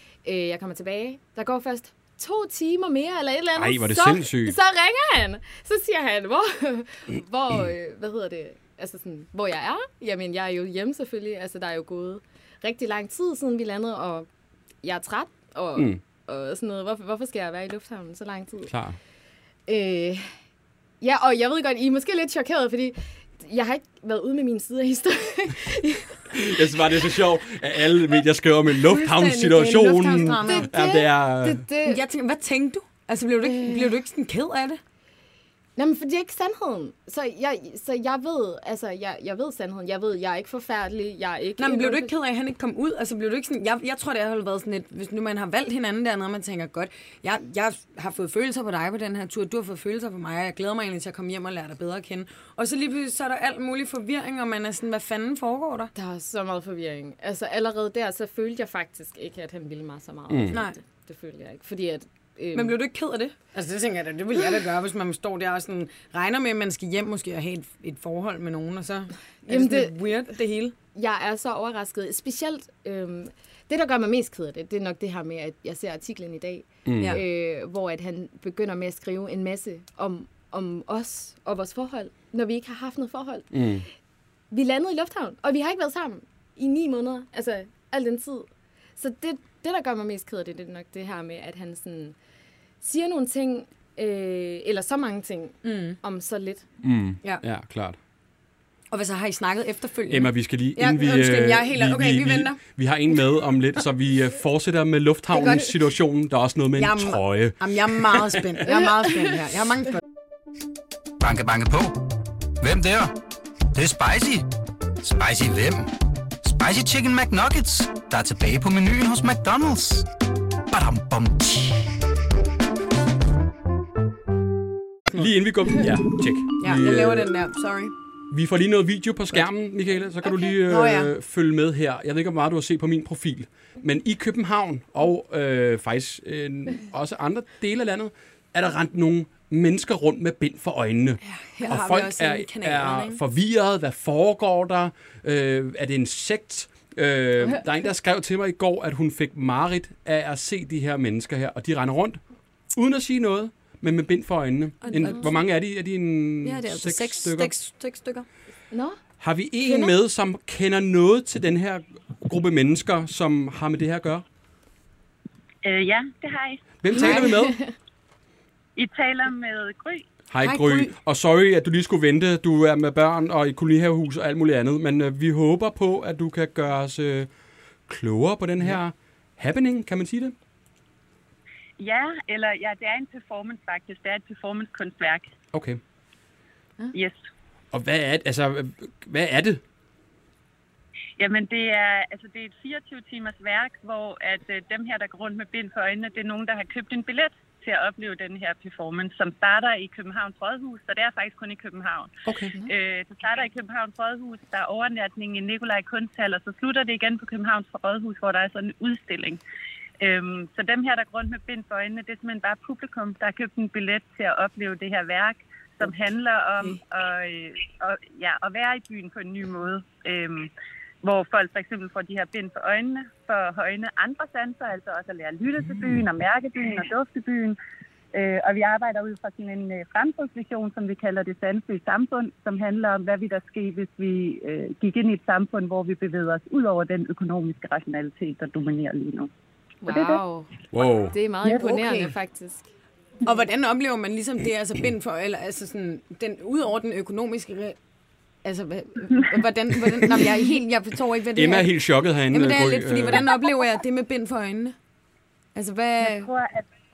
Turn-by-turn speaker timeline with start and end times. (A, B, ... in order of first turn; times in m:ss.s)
0:00.2-0:14.3 A
0:03.5-0:04.6 B
0:14.8-0:18.7 A
0:18.7-0:19.0 B
0:19.7-0:20.3 A
0:21.0-0:26.2 A
0:26.3-0:31.6 B
0:28.9-0:30.7 C
0:30.3-0:32.0 A
0:31.8-0:34.8 C
0:33.4-0:33.9 A
0:35.8-0:42.1 A
0:41.6-0:55.9 C
0:55.9-1:02.8 A
1:00.3-1:00.6 B
1:00.5-1:00.8 C
1:02.5-1:10.7 C
1:09.5-1:10.0 A
1:10.9-1:23.8 A
1:16.8-1:17.2 B
1:17.0-1:17.2 C
1:23.5-1:23.8 B
1:24.5-1:32.2 A
1:32.8-1:36.6 A
1:35.6-1:36.0 C
1:36.8-1:38.0 B
1:38.9-1:42.6 C
1:40.1-1:48.6 B
1:45.4-1:45.7 C
1:46.8-1:50.0 C
1:51.2-1:52.0 D
1:52.6-1:53.1 D
1:53.7-1:54.4 D
1:55.0-1:55.9 D
1:56.4-2:00.0 D
2:00.7-2:01.9 D
2:05.1-2:07.3 B
2:06.6-2:07.9 C
2:08.3-2:32.2 B
2:10.5-2:11.1 C
2:21.2-2:23.2 C
2:32.7-2:37.5 B
2:34.8-2:35.3 C
2:34.9-2:35.3 A
2:36.4-2:38.2 C
2:38.7-2:39.0 A
2:39.2-2:44.2 B
2:45.6-2:46.6 E
2:46.8-2:47.6 B
2:46.9-2:47.3 C
2:46.9-2:47.7 A
2:48.8-2:50.0 E
2:50.3-2:57.3 B
2:50.4-2:50.9 C
2:57.9-3:00.3 B
3:01.8-3:05.3 E
3:05.5-3:05.8 B
3:06.9-3:07.2 E
3:07.7-3:09.6 B
3:11.2-3:22.1 E
3:22.2-3:22.5 B
3:22.6-3:29.4 E
3:30.0-3:40.5 E
3:41.0-3:47.6 E
3:48.1-3:59.3 E
3:59.8-4:00.5 A
3:59.9-4:00.2 E
4:00.7-4:01.1 B
4:01.1-4:02.7 A
4:01.4-4:02.1 C
4:03.2-4:07.8 C
4:08.4-4:11.8 C
4:11.3-4:13.3 B
4:12.3-4:14.7 C
4:15.5-4:16.3 C
4:16.0-4:16.6 E